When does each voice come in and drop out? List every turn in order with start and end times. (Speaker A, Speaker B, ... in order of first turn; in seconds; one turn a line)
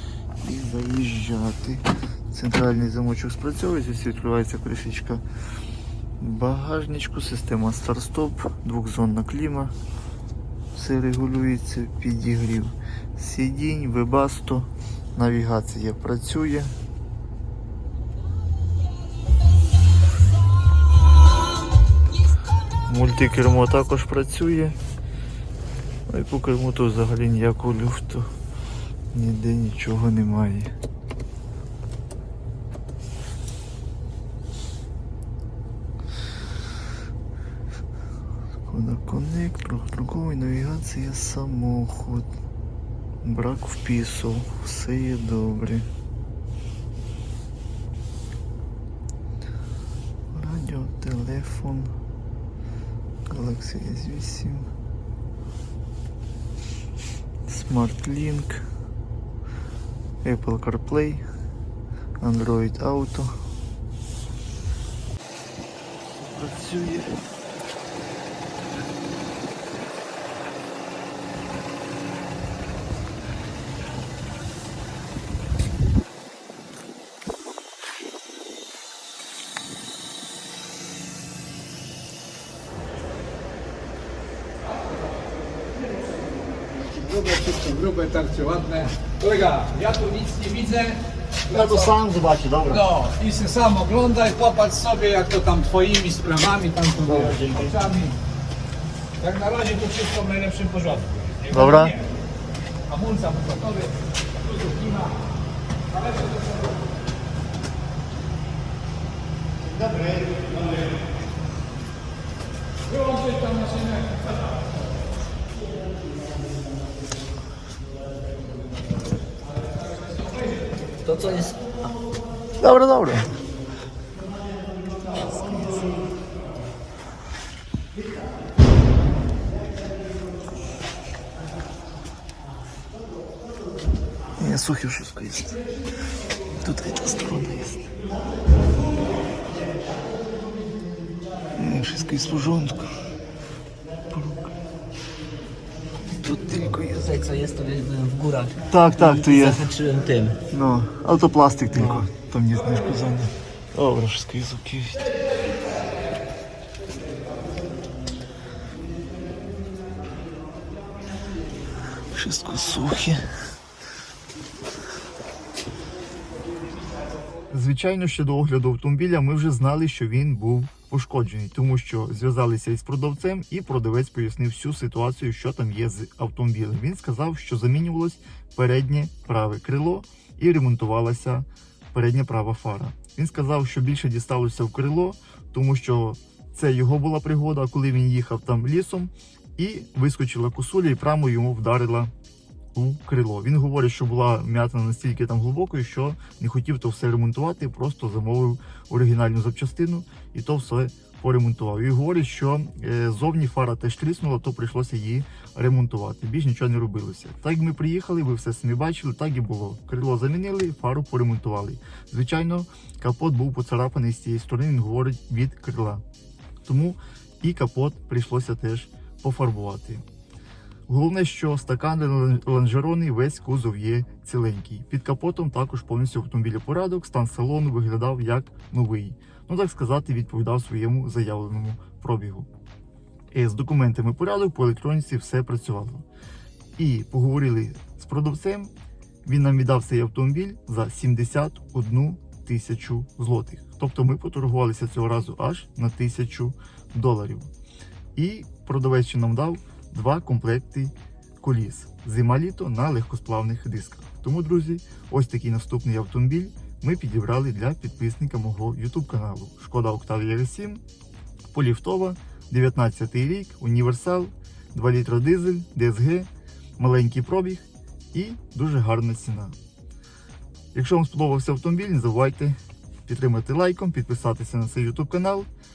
Speaker A: 0.4-5.2
Speaker A: 6.2-9.8
Speaker A: 10.7-16.8
Speaker A: 22.9-24.8
Speaker A: 26.1-28.3
Speaker A: 29.1-30.7
Speaker A: 38.7-42.3
Speaker A: 43.2-45.9
Speaker A: 50.3-51.9
Speaker A: 53.3-54.7
Speaker A: 57.5-58.6
Speaker A: 60.2-61.2
Speaker A: 62.2-63.3
Speaker A: 66.2-67.2
Speaker B: 86.8-91.9
Speaker A: 91.5-92.9
Speaker B: 92.7-98.2
Speaker A: 97.0-97.8
Speaker B: 99.2-102.1
Speaker A: 101.5-102.0
Speaker B: 102.9-105.2
Speaker B: 105.9-106.8
Speaker B: 109.6-111.0
Speaker B: 112.9-114.3
Speaker C: 121.0-121.8
Speaker A: 122.6-123.3
Speaker A: 125.4-125.7
Speaker A: 134.4-135.6
Speaker A: 136.6-137.9
Speaker A: 141.5-142.9
Speaker A: 144.1-144.5
Speaker A: 146.2-147.0
Speaker C: 146.7-150.4
Speaker A: 148.7-149.6
Speaker A: 150.5-155.1
Speaker C: 151.8-152.0
Speaker A: 162.1-163.2
Speaker A: 167.5-192.1
Speaker A: 192.7-216.0
Speaker A: 216.7-220.0
Speaker A: 220.9-232.5
Speaker A: 233.3-236.0
Speaker A: 236.8-238.7
Speaker A: 239.2-247.5
Speaker A: 248.2-260.8
Speaker A: 261.5-269.6
Speaker A: 270.7-275.5